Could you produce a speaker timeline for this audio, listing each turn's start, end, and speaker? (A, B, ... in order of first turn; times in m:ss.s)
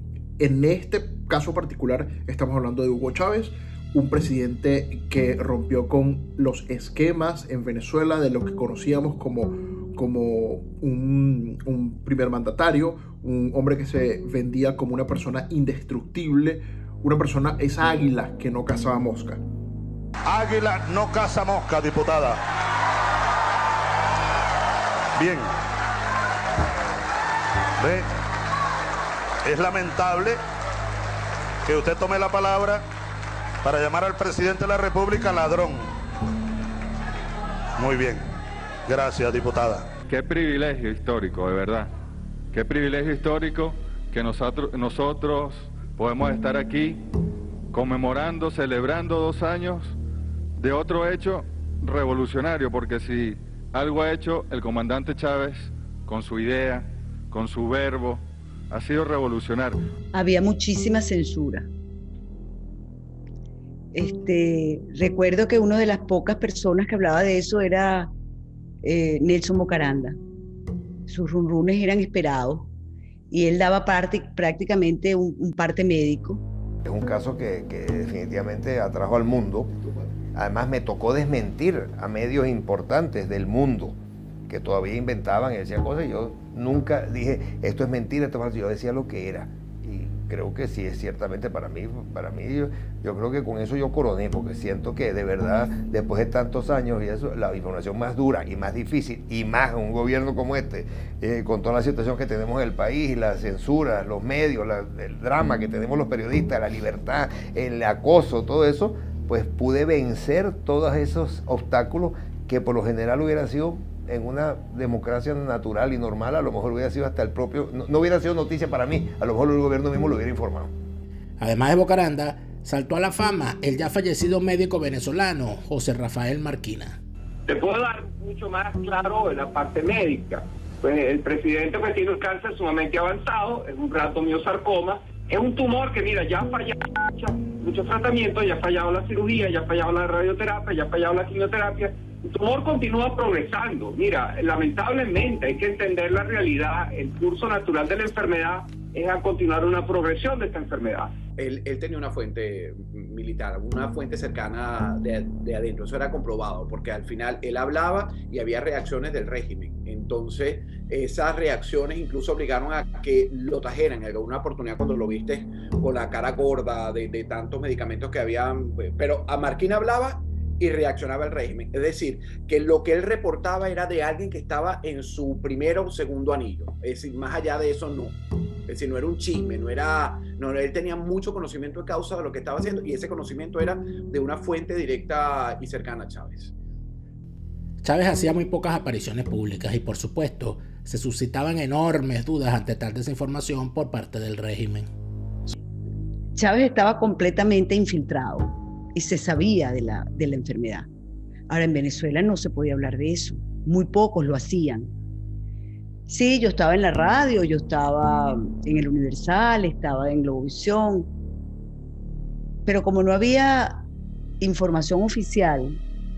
0:00.4-0:19.4 A
0:20.3-0:22.4 B
0:25.2-0:25.5 B
0:27.8-0:28.1 B
0:29.4-0:30.4 B
0:31.7-0:32.8 B
0:33.6-0:35.9 B
0:37.8-0:38.3 B
0:38.9-0:39.9 B
0:40.1-0:41.9 C
0:42.5-0:47.0 C
0:47.7-0:50.0 C
0:50.6-0:59.8 C
1:00.1-1:01.7 D
1:03.9-1:08.1 D
1:08.8-1:10.2 D
1:11.1-1:12.7 D
1:13.3-1:16.4 D
1:16.8-1:24.0 E
1:24.5-2:00.7 E
2:01.4-2:07.0 F
2:07.5-2:31.1 G
2:31.4-2:58.2 H
2:58.7-3:06.5 H
3:07.8-3:14.9 F
3:16.4-3:20.9 D
3:21.5-3:24.9 D
3:26.1-3:31.1 D
3:32.7-3:33.8 D
3:34.4-3:35.8 D